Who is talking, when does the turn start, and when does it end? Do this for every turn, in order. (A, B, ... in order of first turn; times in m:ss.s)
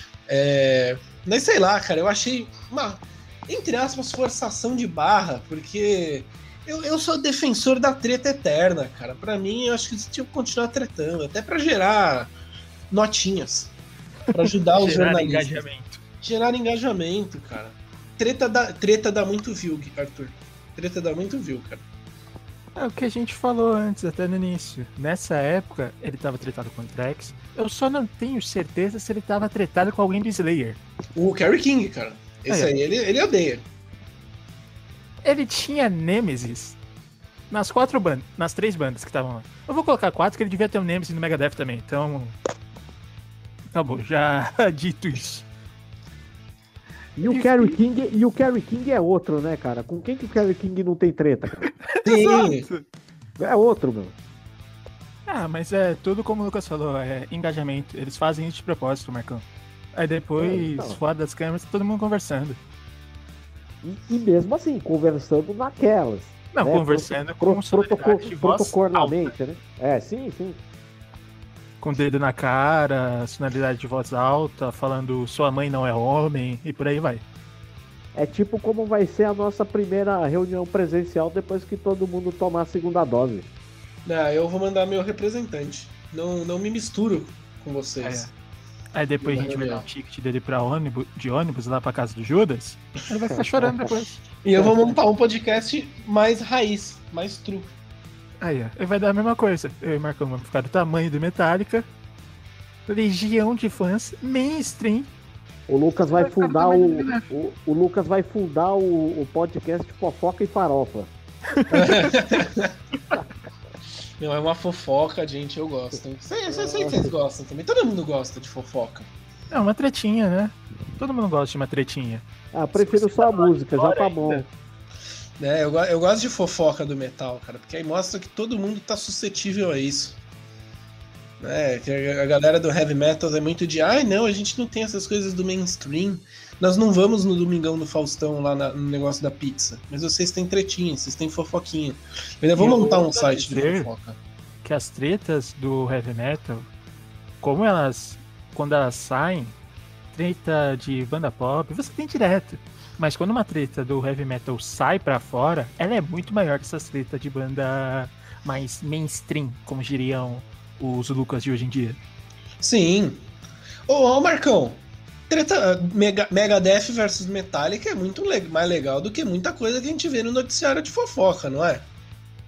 0:00.3-0:12.3 A
0:12.9-0:13.7 A
0:14.3-0:15.6 A
0:14.3-0:16.0 B
0:16.2-0:21.8 A
0:22.8-0:30.8 B
0:31.1-0:33.6 A
0:35.2-0:36.8 B
0:37.5-0:42.4 B
0:43.7-0:45.4 B
0:47.2-0:51.7 C
0:47.2-0:47.8 B
0:51.8-0:52.8 B
0:52.0-0:52.7 A
0:53.4-0:54.2 C
0:55.3-1:02.6 B
1:00.4-1:01.0 C
1:03.8-1:10.6 C
1:06.5-1:09.3 B
1:11.8-1:17.2 B
1:18.1-1:23.5 C
1:24.0-1:28.3 A
1:28.0-1:28.3 B
1:28.9-1:34.2 B
1:29.2-1:29.8 A
1:34.4-1:37.7 A
1:38.4-1:41.9 B
1:42.9-1:45.1 B
1:45.7-1:51.1 C
1:46.1-1:47.3 B
1:51.6-1:52.1 B
1:51.7-1:52.7 A
1:54.2-1:59.1 A
1:56.5-1:57.1 C
1:59.5-2:04.4 B
2:02.5-2:04.5 C
2:05.4-2:10.2 A
2:11.4-2:24.2 A
2:22.6-2:23.9 B
2:24.6-2:26.7 B
2:27.4-2:29.6 B
2:30.1-2:42.0 B
2:42.6-2:43.2 A
2:43.9-2:51.8 A